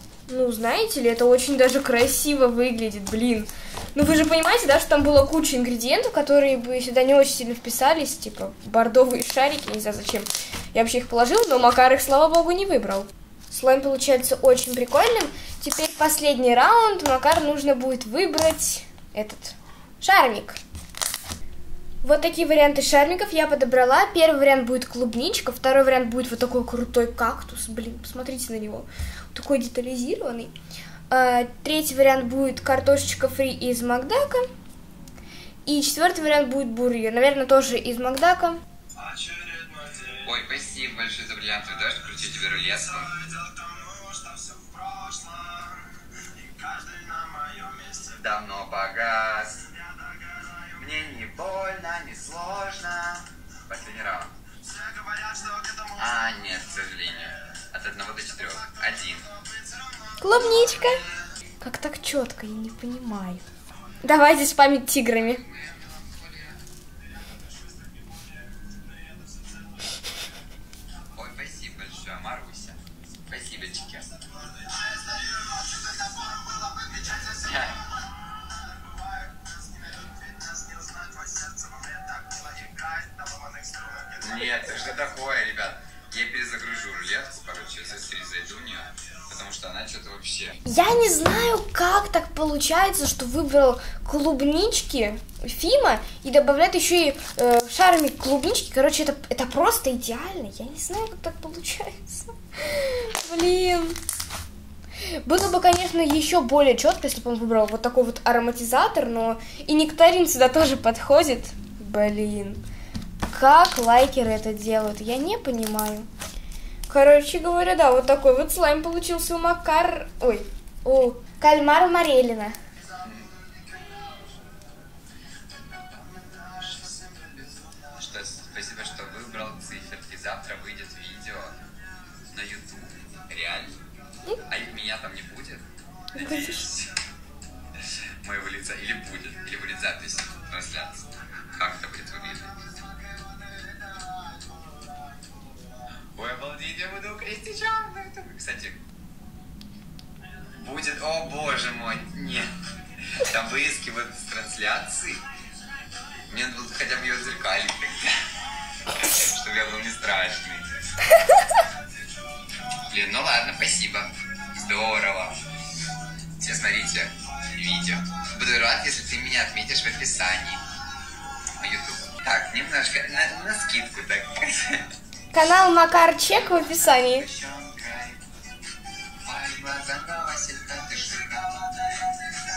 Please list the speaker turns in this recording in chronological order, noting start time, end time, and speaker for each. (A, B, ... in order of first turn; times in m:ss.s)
0:00.3-0:20.6 A
0:22.0-0:30.5 A
0:31.1-0:34.5 A
0:35.7-0:38.6 A
0:40.0-0:43.3 B
0:47.9-0:49.7 B
0:50.7-0:54.3 B
0:55.8-0:59.4 B
1:00.2-1:01.1 A
1:01.6-1:03.4 A
1:04.0-1:05.4 A
1:05.2-1:06.6 B
1:11.2-1:14.2 B
1:17.0-1:17.9 B
1:24.1-1:30.6 B
1:30.6-1:44.0 A
1:45.1-1:52.6 A
1:53.3-1:56.1 A
1:56.9-2:02.6 A
2:03.0-2:03.4 B
2:05.7-2:11.6 B
2:12.3-2:13.7 B
2:14.5-2:17.0 B
2:16.2-2:16.7 A
2:17.8-2:22.6 B
2:26.2-2:28.8 B
2:30.6-2:35.2 B
2:36.3-2:38.2 B
2:38.9-2:40.7 B
2:42.9-2:45.4 B
2:46.4-2:50.6 B
2:51.6-2:54.8 B
2:55.3-2:57.3 A
2:56.3-2:58.2 B
2:59.2-3:01.8 B